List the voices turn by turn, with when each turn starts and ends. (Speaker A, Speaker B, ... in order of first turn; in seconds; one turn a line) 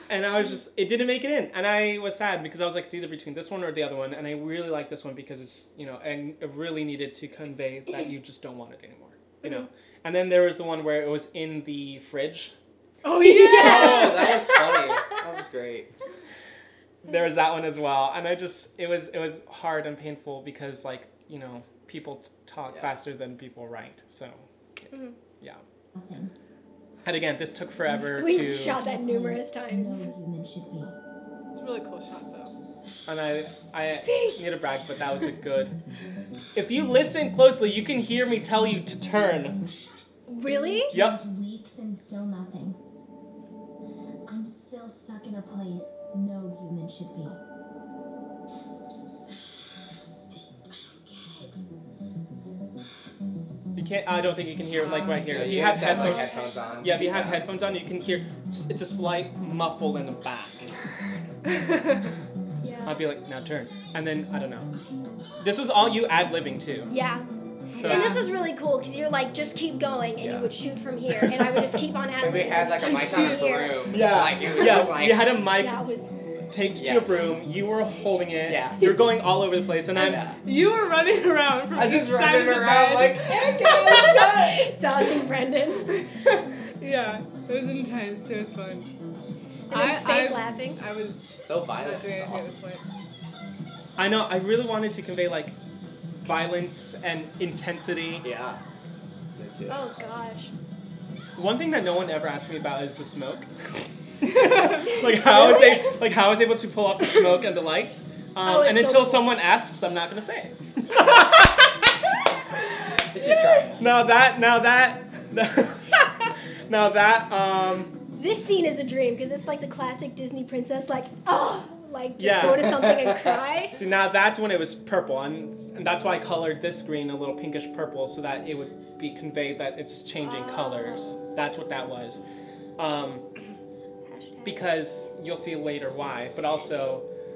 Speaker A: 0.1-12.5
Speaker B: 13.0-14.4
Speaker C: 13.2-15.2
Speaker D: 13.5-15.9
Speaker A: 17.0-24.5
Speaker E: 25.9-26.3
Speaker A: 27.0-28.8
Speaker E: 27.9-31.0
Speaker C: 28.1-30.1
Speaker B: 31.6-32.5
Speaker A: 33.1-35.7
Speaker C: 33.9-34.5
Speaker A: 36.5-39.6
Speaker C: 40.3-40.9
Speaker E: 40.5-42.8
Speaker A: 40.9-41.2
Speaker E: 44.2-47.4
Speaker E: 50.7-51.6
Speaker A: 53.8-60.7
Speaker B: 54.7-55.6
Speaker D: 55.2-57.5
Speaker C: 55.8-56.9
Speaker B: 61.5-62.0
Speaker C: 62.6-63.0
Speaker E: 62.7-65.8
Speaker A: 62.8-64.7
Speaker A: 65.4-66.9
Speaker C: 66.9-73.8
Speaker A: 67.7-68.2
Speaker B: 67.7-68.3
Speaker A: 70.2-70.5
Speaker A: 71.1-71.7
Speaker D: 72.2-75.3
Speaker B: 72.8-73.6
Speaker A: 73.9-75.8
Speaker C: 75.5-76.1
Speaker A: 76.5-80.2
Speaker D: 76.8-77.3
Speaker D: 78.5-78.8
Speaker D: 80.0-80.4
Speaker B: 80.5-84.4
Speaker D: 81.7-84.7
Speaker C: 83.9-86.0
Speaker B: 86.0-88.9
Speaker C: 89.7-90.8
Speaker B: 89.7-92.8
Speaker D: 91.5-92.6
Speaker A: 94.0-95.6
Speaker A: 96.2-98.3
Speaker D: 98.2-98.6
Speaker D: 99.4-100.1
Speaker C: 99.7-100.5
Speaker A: 101.4-111.9
Speaker C: 104.9-106.0
Speaker C: 108.4-109.3
Speaker D: 113.1-114.0
Speaker A: 113.8-117.9
Speaker C: 118.1-123.8
Speaker A: 122.2-122.9
Speaker D: 122.6-123.4
Speaker A: 123.7-132.2
Speaker C: 130.2-131.2
Speaker A: 132.8-133.3
Speaker C: 134.1-134.6
Speaker A: 134.4-137.1